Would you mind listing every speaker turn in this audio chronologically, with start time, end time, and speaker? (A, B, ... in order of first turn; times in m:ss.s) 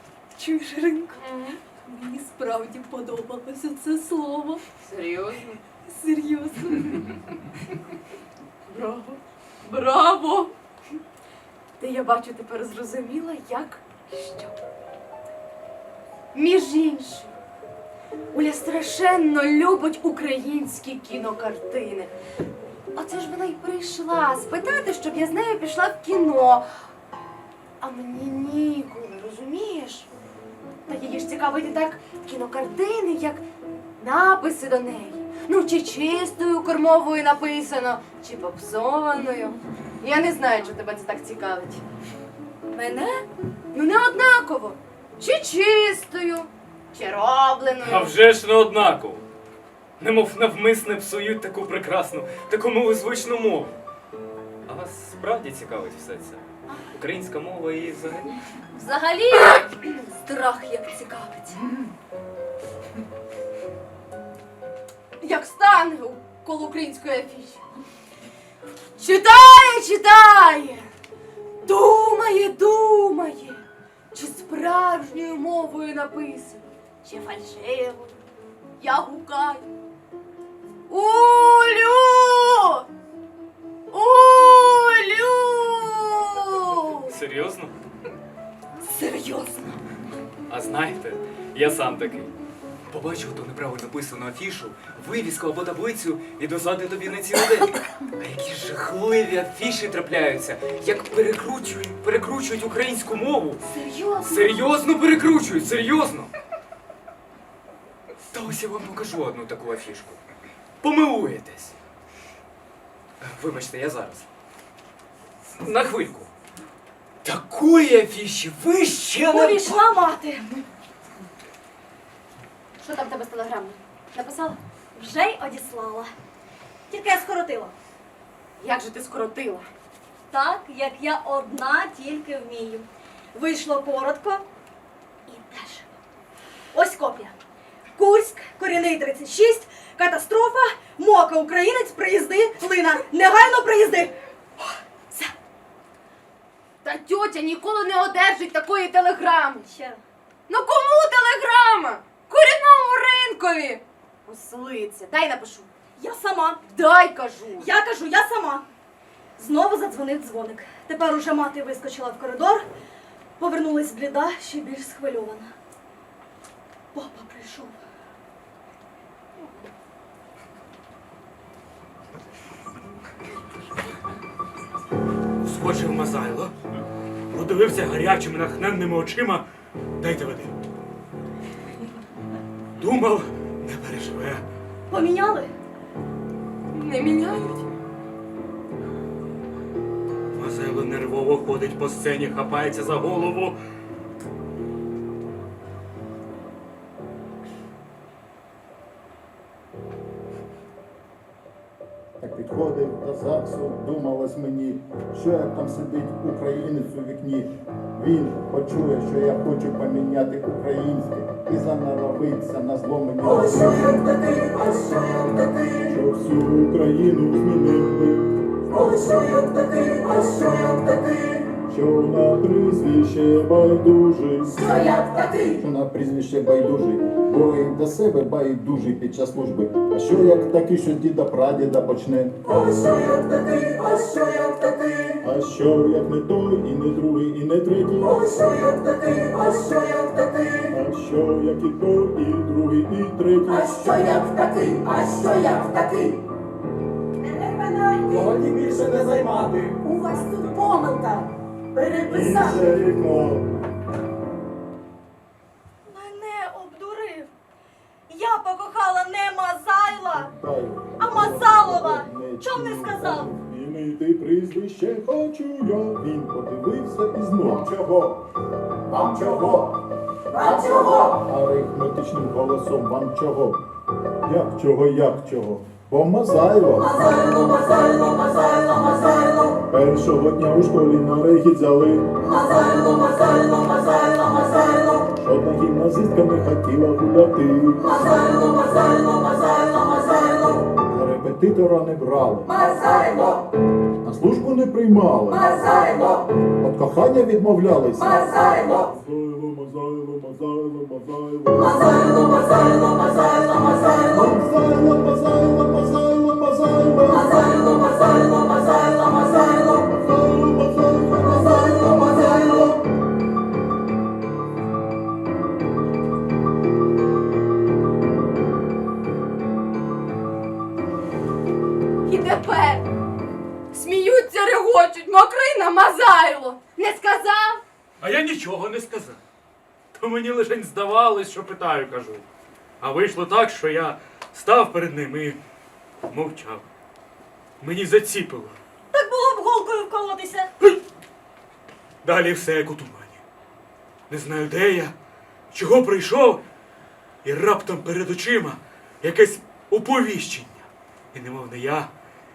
0:00.3-0:01.2 A
0:01.2-0:01.6 B
0:01.8-0:04.6 A
0:04.8-0:05.6 B
0:05.9-0:07.2 A
0:08.7-0:10.5 B
0:11.8-0:14.6 B
0:16.3-0:17.3 B
0:18.3-0:22.1 B
0:22.9-0:26.6 B
0:27.8-0:30.1 B
0:30.9-0:33.4 B
0:34.0-0:41.8 B
0:42.7-0:43.2 A
0:43.7-0:48.2 B
0:47.8-0:49.2 C
0:50.0-0:53.8 C
0:54.7-0:58.4 C
0:58.8-1:01.7 A
1:05.2-1:07.6 B
1:09.0-1:10.9 B
1:11.6-1:18.1 B
1:18.8-1:19.7 B
1:20.9-1:22.9 B
1:23.9-1:27.1 B
1:27.1-1:27.7 C
1:28.8-1:29.8 A
1:30.5-1:32.3 C
1:32.9-1:43.6 C
1:43.6-1:44.6 A
1:44.2-1:46.3 C
1:48.3-1:50.2 C
1:50.8-1:51.8 C
1:53.2-1:54.3 C
1:55.5-1:56.3 C
1:57.2-1:59.8 C
1:59.3-2:00.5 D
2:02.8-2:04.6 B
2:05.0-2:06.1 D
2:06.9-2:07.7 D
2:08.6-2:09.7 B
2:10.3-2:14.4 D
2:15.3-2:15.9 D
2:16.7-2:17.4 D
2:18.0-2:24.2 D
2:26.8-2:29.7 B
2:29.6-2:30.0 D
2:30.5-2:35.7 B
2:36.0-2:36.6 D
2:36.6-2:37.7 B
2:37.6-2:38.7 D
2:39.4-2:42.6 D
2:43.4-2:45.5 D
2:46.9-2:47.8 D
2:55.4-2:56.5 E
2:57.3-2:59.4 E
3:00.0-3:00.6 E
3:02.8-3:04.4 E
3:04.9-3:05.5 D
3:06.7-3:07.7 B
3:10.3-3:13.6 E
3:22.2-3:34.0 F
3:34.0-3:35.8 G
3:35.9-3:38.4 F
3:38.8-3:41.4 G
3:41.6-3:44.6 F
3:44.8-3:45.0 G
3:45.6-3:52.4 F
3:52.7-3:55.2 G
3:55.2-3:58.2 F
3:58.2-4:00.7 G
4:00.7-4:04.1 F
4:03.7-4:06.2 G
4:07.9-4:12.6 G
4:12.1-4:13.5 F
4:15.9-4:17.3 D
4:18.1-4:20.3 D
4:20.2-4:28.3 F
4:21.0-4:23.3 D
4:28.9-4:29.9 F
4:30.5-4:30.9 D
4:31.1-4:33.6 F
4:34.2-4:37.0 F
4:39.6-4:42.2 F
4:45.0-4:48.0 F
4:50.6-4:53.0 F
4:54.0-5:02.6 F
5:04.0-5:08.4 F
5:09.1-5:12.8 F
5:22.0-5:22.9 B
5:23.7-5:27.6 B
5:28.0-5:29.2 E
5:29.9-5:32.2 E
5:32.8-5:35.4 E
5:36.1-5:36.6 E
5:37.6-5:38.6 E
5:38.9-5:40.5 D
5:42.0-5:43.2 E
5:44.1-5:44.9 E
5:45.5-5:46.4 E
5:47.2-5:51.9 E